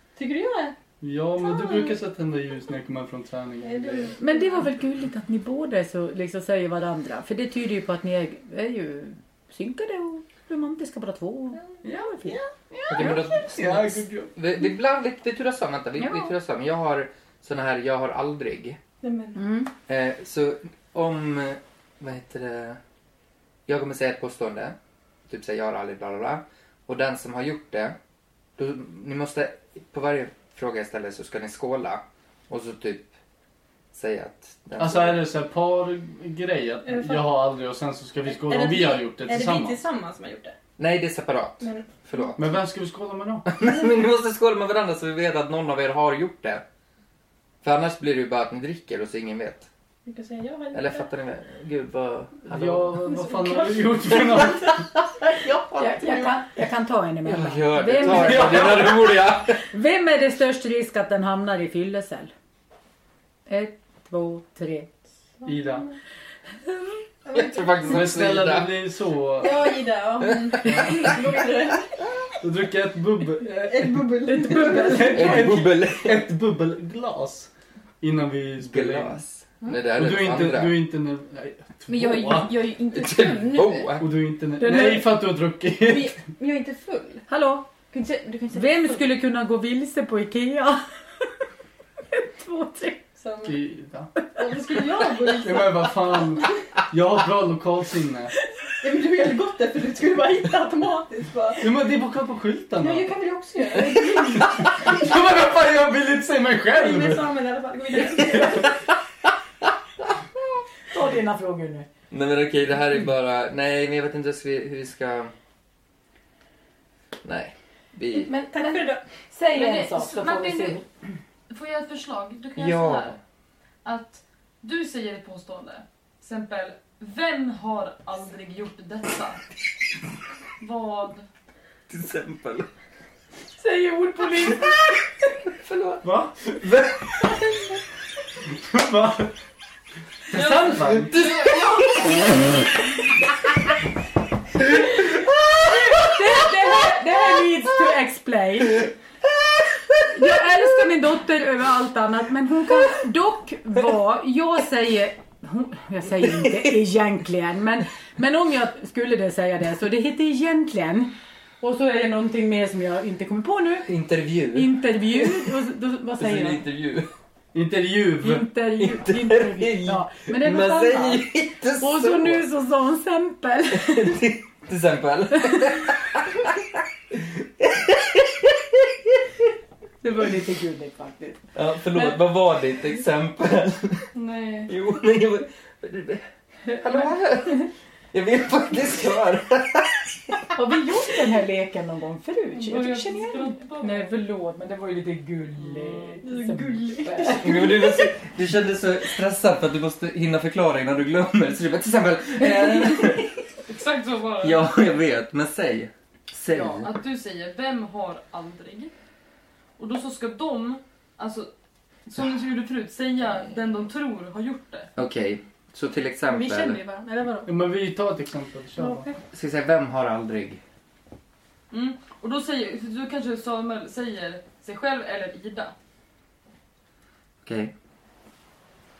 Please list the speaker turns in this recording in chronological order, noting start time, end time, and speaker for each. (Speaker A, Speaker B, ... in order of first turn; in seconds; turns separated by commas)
Speaker A: 0.1-0.8, Speaker B: 1.0-4.2, Speaker A: 1.4-1.9, Speaker A: 3.6-4.6, Speaker C: 4.2-12.3, Speaker B: 11.8-12.2, Speaker A: 12.2-13.3, Speaker B: 12.8-14.3, Speaker D: 12.9-18.8, Speaker C: 16.0-16.3, Speaker A: 19.0-19.4, Speaker C: 19.4-19.7, Speaker D: 19.9-22.8, Speaker D: 23.7-24.8, Speaker D: 25.3-28.0, Speaker D: 28.6-33.1, Speaker D: 33.9-35.2, Speaker B: 34.8-39.8, Speaker A: 36.8-37.3, Speaker A: 38.3-40.5, Speaker D: 40.8-42.5, Speaker A: 41.6-42.4, Speaker B: 42.4-43.5, Speaker D: 43.5-46.6, Speaker D: 47.6-49.7, Speaker A: 50.0-51.1, Speaker D: 50.7-53.0, Speaker B: 52.4-54.8, Speaker A: 53.0-56.4, Speaker C: 55.8-58.9, Speaker D: 57.2-59.6, Speaker B: 58.1-59.0, Speaker C: 59.6-62.3, Speaker C: 63.5-64.9, Speaker A: 65.4-65.9, Speaker B: 65.4-65.9, Speaker C: 66.6-67.0, Speaker A: 67.2-67.8, Speaker D: 67.3-68.8, Speaker B: 67.9-69.8, Speaker A: 69.4-72.0, Speaker B: 70.6-71.0, Speaker B: 72.4-77.5, Speaker A: 73.4-75.5, Speaker C: 74.5-75.2, Speaker D: 75.1-76.2, Speaker B: 78.0-79.2, Speaker D: 78.6-80.8, Speaker B: 79.8-82.5, Speaker A: 81.9-84.0, Speaker D: 82.9-84.0, Speaker B: 84.0-86.1, Speaker C: 84.6-85.0, Speaker A: 85.8-87.2, Speaker C: 87.3-87.7, Speaker A: 87.9-89.1, Speaker C: 88.5-91.3, Speaker C: 92.1-93.0, Speaker A: 93.2-93.6, Speaker B: 93.4-94.1, Speaker A: 94.3-96.3, Speaker B: 95.3-98.3, Speaker A: 98.8-101.8, Speaker B: 101.6-103.1, Speaker A: 102.8-104.6, Speaker B: 104.0-107.3, Speaker A: 106.7-108.7, Speaker B: 108.2-108.6, Speaker C: 110.9-111.9, Speaker D: 112.1-115.3, Speaker D: 117.2-118.3, Speaker A: 118.3-119.0, Speaker C: 118.3-120.8, Speaker E: 119.5-120.8, Speaker E: 121.5-123.1, Speaker D: 122.5-123.2, Speaker E: 123.8-129.5, Speaker E: 130.6-131.3, Speaker D: 131.9-132.7, Speaker A: 133.6-134.7, Speaker D: 135.6-136.0, Speaker B: 136.0-136.7, Speaker D: 136.6-137.2, Speaker B: 138.5-139.3, Speaker B: 140.3-141.2, Speaker E: 140.3-141.5, Speaker D: 140.8-142.3, Speaker D: 145.1-146.8, Speaker C: 145.6-148.9, Speaker D: 149.6-150.3, Speaker C: 150.1-163.9, Speaker D: 163.8-165.5, Speaker C: 164.5-166.6, Speaker D: 166.2-167.1, Speaker B: 167.5-168.5, Speaker C: 168.2-171.2, Speaker D: 168.8-172.4, Speaker C: 171.8-174.2, Speaker D: 173.7-179.4, Speaker C: 180.0-181.4, Speaker D: 181.5-184.1, Speaker E: 184.1-184.7, Speaker D: 184.7-190.4, Speaker C: 190.5-197.9, Speaker E: 192.5-194.1, Speaker A: 196.2-198.1, Speaker D: 197.4-203.4, Speaker E: 203.7-204.6, Speaker D: 204.4-206.9, Speaker E: 206.5-208.9, Speaker E: 209.8-211.5, Speaker E: 212.1-214.9, Speaker D: 214.9-216.8, Speaker A: 216.2-217.5, Speaker B: 217.4-219.1, Speaker A: 218.8-219.2, Speaker D: 219.3-220.6, Speaker E: 221.7-225.7, Speaker D: 227.4-227.7